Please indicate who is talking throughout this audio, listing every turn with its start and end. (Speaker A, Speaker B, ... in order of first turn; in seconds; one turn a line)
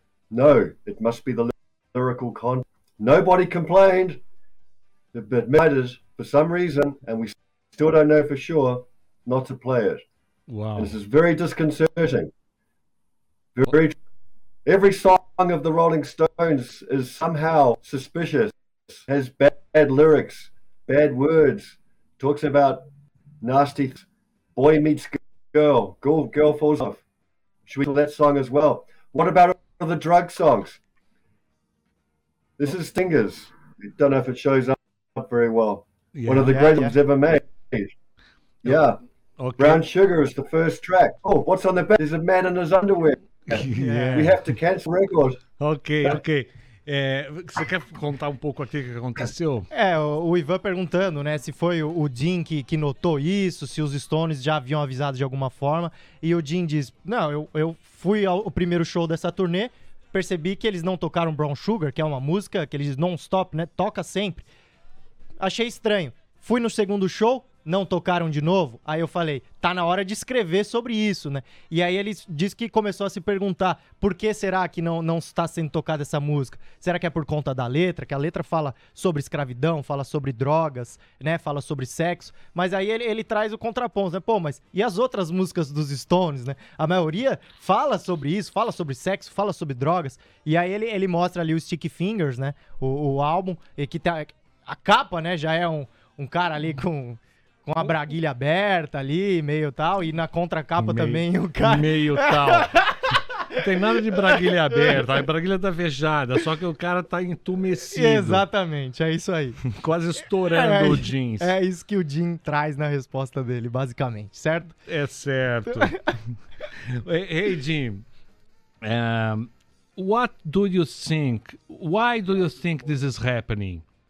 Speaker A: 0.3-4.2
Speaker A: 5.1-10.0
Speaker B: 10.5-11.0
Speaker A: 10.8-12.3
Speaker A: 13.5-13.9
Speaker A: 14.6-22.9
Speaker A: 23.4-27.0
Speaker A: 27.7-30.8
Speaker A: 32.6-37.9
Speaker B: 36.1-36.7
Speaker C: 36.4-36.9
Speaker A: 38.6-39.0
Speaker B: 38.6-39.8
Speaker A: 39.6-45.4
Speaker B: 43.5-44.5
Speaker C: 43.7-44.3
Speaker B: 45.6-49.7
Speaker C: 49.7-64.5
Speaker C: 65.4-102.9
Speaker B: 100.8-108.4
Speaker C: 107.9-109.6
Speaker B: 109.6-111.5
Speaker C: 110.4-114.7
Speaker B: 114.9-118.0
Speaker B: 118.8-123.8